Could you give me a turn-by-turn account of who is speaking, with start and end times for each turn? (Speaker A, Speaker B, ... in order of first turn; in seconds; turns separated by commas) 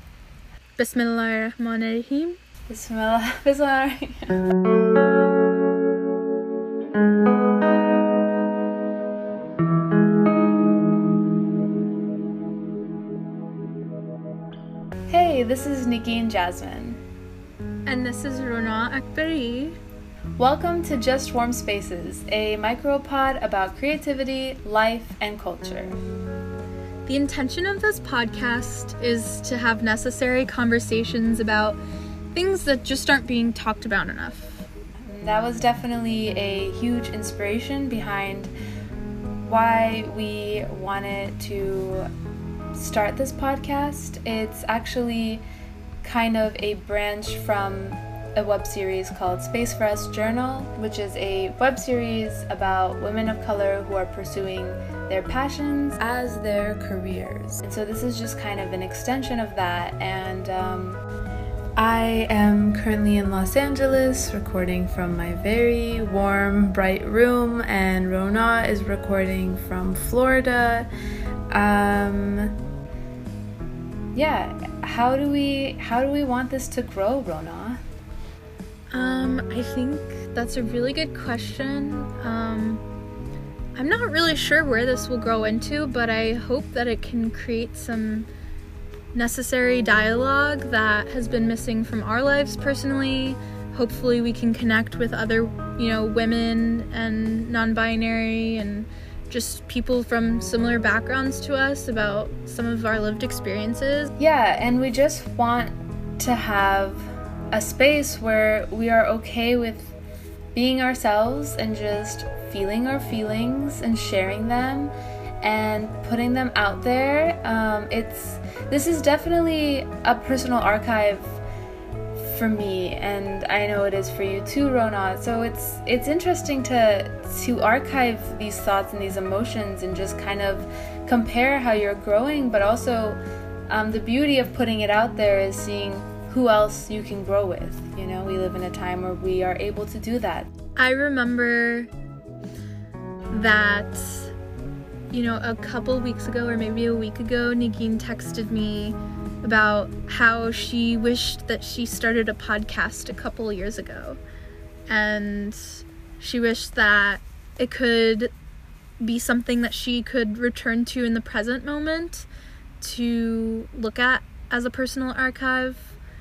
Speaker A: 0.8-2.4, Speaker B: 2.7-4.4, Speaker B: 15.1-17.0, Speaker A: 17.9-19.8, Speaker B: 20.4-26.0, Speaker A: 27.1-31.8, Speaker A: 32.3-34.7, Speaker B: 35.0-38.5, Speaker B: 39.4-42.1, Speaker B: 42.7-45.4, Speaker B: 46.0-61.0, Speaker B: 61.8-70.9, Speaker B: 71.5-72.5, Speaker B: 74.1-77.8, Speaker A: 78.9-82.8, Speaker A: 83.8-88.3, Speaker A: 89.1-104.1, Speaker B: 104.2-110.0, Speaker B: 110.5-121.4, Speaker B: 122.2-140.5, Speaker A: 140.8-141.9, Speaker A: 143.3-144.3, Speaker A: 145.1-154.2, Speaker A: 154.9-158.3, Speaker A: 159.0-162.3, Speaker A: 162.8-165.9